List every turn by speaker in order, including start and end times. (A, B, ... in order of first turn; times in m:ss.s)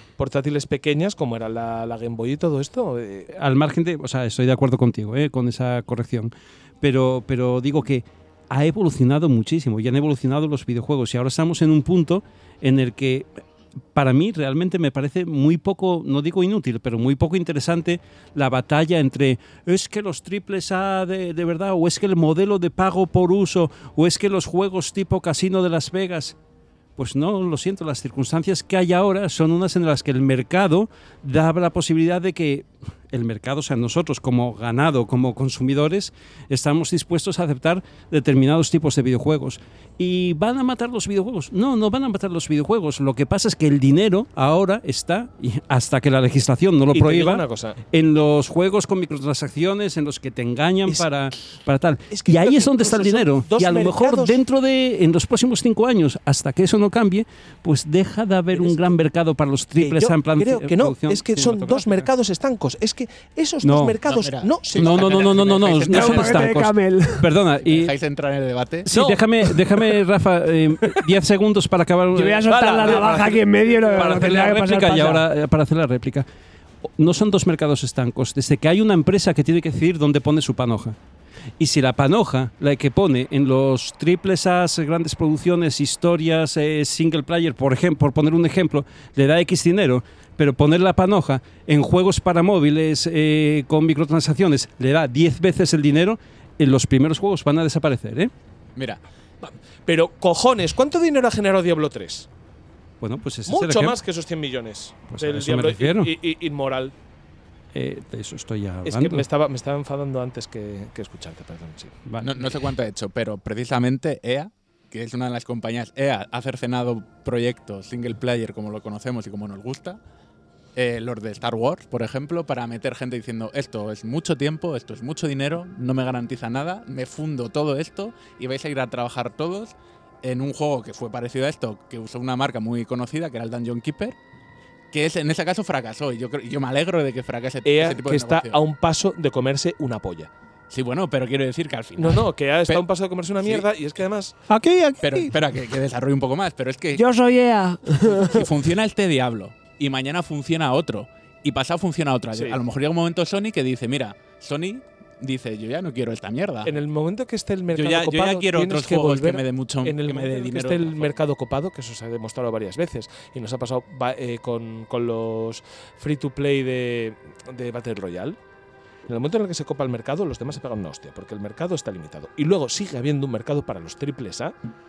0:00.2-0:03.3 A
0:03.3-0:06.3 B
0:06.8-0:13.3 B
0:13.9-0:26.3 B
0:27.0-1:02.1 B
0:46.9-0:47.8 A
0:52.1-0:54.4 A
0:58.5-0:58.9 A
0:59.8-1:05.7 A
1:03.6-1:04.0 B
1:04.0-1:06.5 C
1:04.8-1:07.9 B
1:05.9-1:07.3 D
1:07.6-1:08.9 C
1:08.8-1:13.2 B
1:08.9-1:09.9 A
1:12.1-1:15.2 D
1:12.5-1:14.4 A
1:13.9-1:16.2 B
1:17.0-1:21.0 B
1:21.6-1:38.3 B
1:38.8-1:39.0 C
1:39.4-1:42.3 A
1:43.0-1:44.0 B
1:43.5-1:46.9 A
1:45.1-1:46.1 B
1:47.7-1:49.2 B
1:48.8-1:52.0 A
1:52.1-1:52.3 B
1:52.2-2:00.0 C
2:00.8-2:14.2 C
2:14.9-2:18.6 C
2:17.6-2:20.3 A
2:20.7-2:22.8 C
2:22.0-2:24.4 A
2:24.5-2:25.3 D
2:25.0-2:27.0 C
2:26.9-2:28.5 D
2:28.1-2:36.8 C
2:32.3-2:32.6 A
2:36.6-2:48.4 A
2:37.7-2:41.2 C
2:49.1-2:54.5 A